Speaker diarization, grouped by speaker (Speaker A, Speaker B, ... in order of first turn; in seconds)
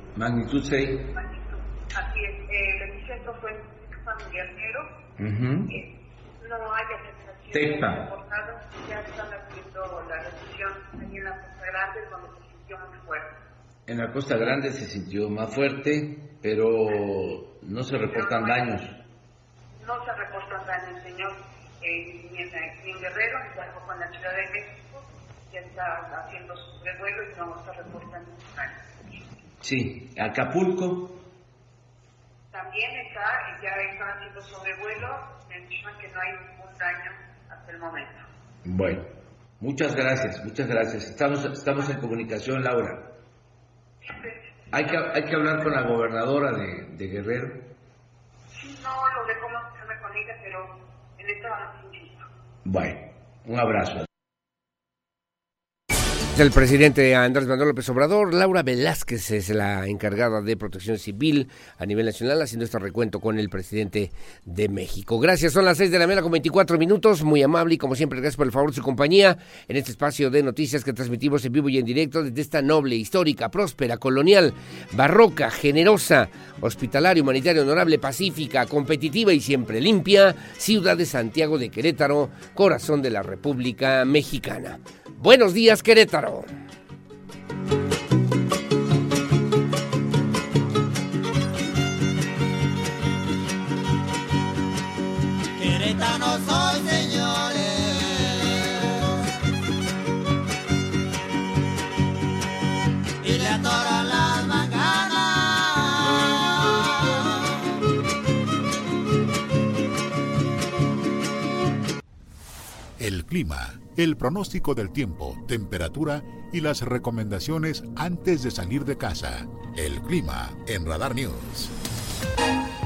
Speaker A: 0.1-1.1, 5.2-5.7, 7.5-8.1, 13.9-19.0, 29.6-31.2, 38.6-39.1, 39.6-43.1, 44.7-47.7, 52.6-54.1
Speaker B: 1.1-5.0, 5.7-13.4, 18.0-18.8, 19.8-28.8, 32.5-38.3, 44.0-45.2, 48.5-52.3
Speaker C: 56.4-86.5
Speaker D: 95.6-97.7, 103.2-105.2
Speaker E: 113.0-121.7